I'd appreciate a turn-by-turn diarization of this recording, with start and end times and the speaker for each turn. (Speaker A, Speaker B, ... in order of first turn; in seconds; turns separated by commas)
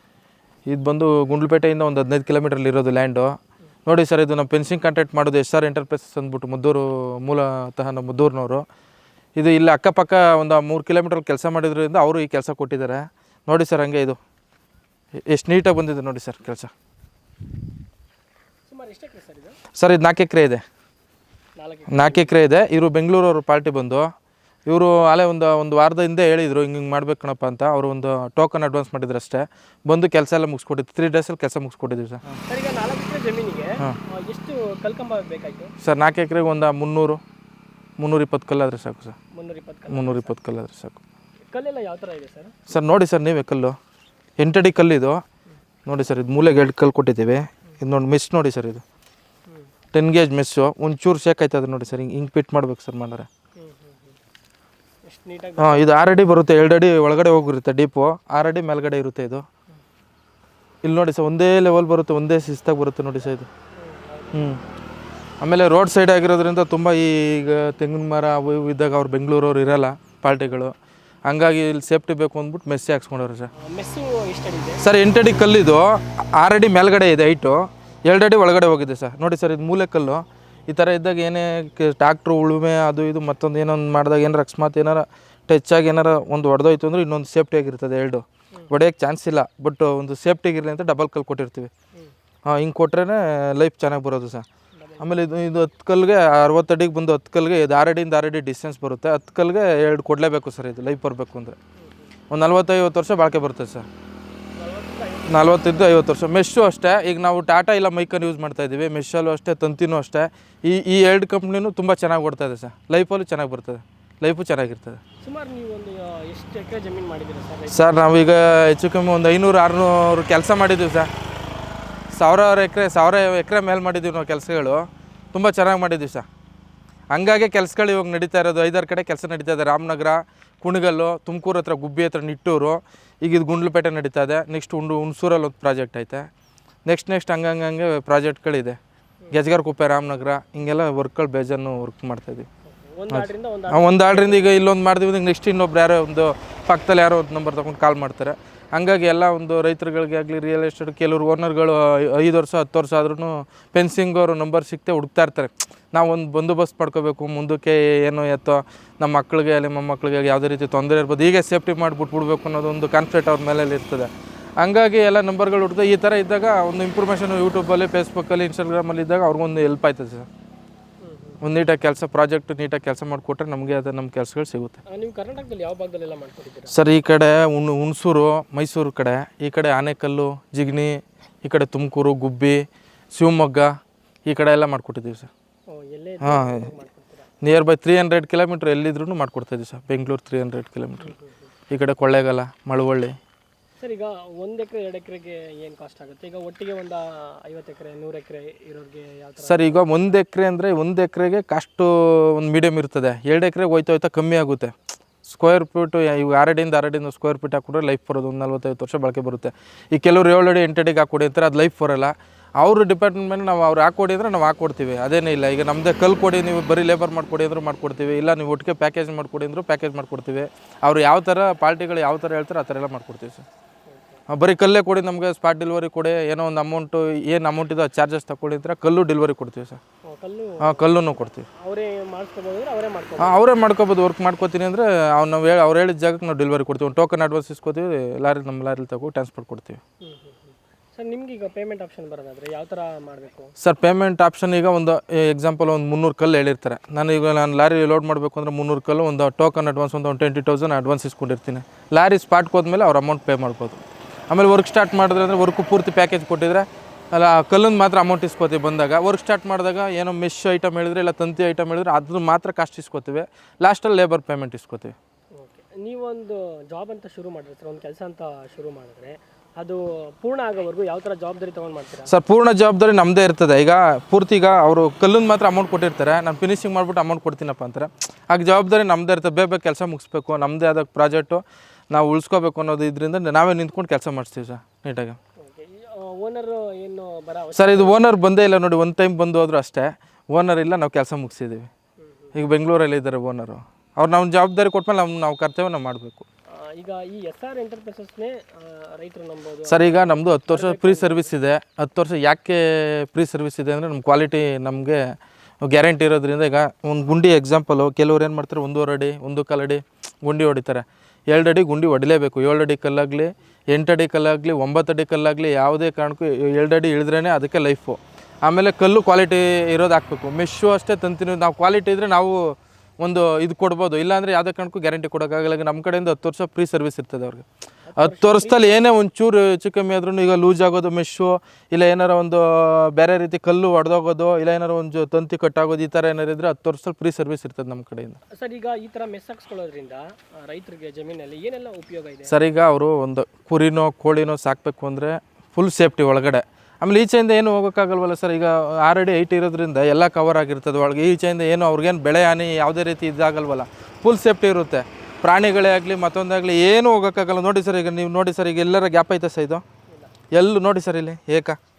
Speaker A: 0.7-3.3, Speaker A: 3.9-8.6, Speaker A: 9.4-14.2, Speaker A: 15.3-16.7, Speaker B: 18.7-19.6, Speaker A: 19.8-20.6, Speaker B: 21.6-22.4, Speaker A: 21.9-24.1, Speaker A: 24.7-32.4, Speaker B: 32.5-35.7, Speaker A: 35.8-37.2, Speaker A: 38.0-39.2, Speaker B: 39.4-40.4, Speaker A: 39.9-41.0, Speaker B: 41.5-42.7, Speaker A: 42.7-43.8, Speaker A: 44.4-45.2, Speaker A: 45.9-48.8, Speaker A: 49.9-53.3, Speaker B: 53.6-54.2, Speaker B: 55.1-56.0, Speaker A: 55.6-59.4, Speaker A: 60.8-63.5, Speaker B: 63.8-64.7, Speaker A: 64.3-64.6, Speaker A: 65.4-70.7, Speaker A: 71.3-73.5, Speaker B: 73.5-74.8, Speaker A: 74.8-91.7, Speaker A: 92.5-94.5, Speaker B: 94.8-95.2, Speaker A: 95.0-101.6, Speaker B: 101.8-102.1, Speaker A: 102.3-103.9, Speaker B: 104.6-105.9, Speaker A: 105.3-115.0, Speaker B: 115.2-118.1, Speaker A: 117.7-121.1, Speaker A: 122.2-124.8, Speaker A: 125.3-126.3, Speaker A: 127.1-136.3, Speaker A: 136.9-138.8, Speaker A: 139.3-142.5, Speaker B: 142.7-144.6, Speaker A: 143.1-170.3, Speaker B: 171.0-171.4, Speaker A: 171.4-174.8, Speaker B: 174.9-176.8, Speaker A: 176.7-182.6, Speaker A: 183.1-183.7, Speaker A: 184.3-185.3, Speaker B: 185.7-187.3, Speaker A: 186.2-186.7, Speaker A: 187.4-191.2, Speaker B: 191.0-191.4, Speaker A: 191.7-193.2, Speaker B: 193.8-200.1, Speaker A: 199.4-204.7, Speaker A: 205.2-223.5, Speaker B: 223.9-224.2, Speaker A: 224.3-229.8, Speaker B: 230.1-233.5, Speaker A: 230.6-231.5, Speaker A: 233.2-239.8, Speaker B: 240.0-243.5, Speaker A: 243.6-264.9, Speaker B: 265.4-272.1, Speaker A: 272.1-285.2, Speaker B: 285.4-288.0, Speaker A: 287.6-291.7, Speaker B: 292.0-292.4, Speaker A: 292.4-296.3, Speaker B: 296.6-301.3, Speaker A: 299.7-305.0, Speaker A: 305.6-327.5, Speaker B: 327.9-328.8, Speaker A: 328.0-338.2, Speaker B: 338.3-342.4, Speaker A: 342.3-359.6, Speaker A: 360.3-361.6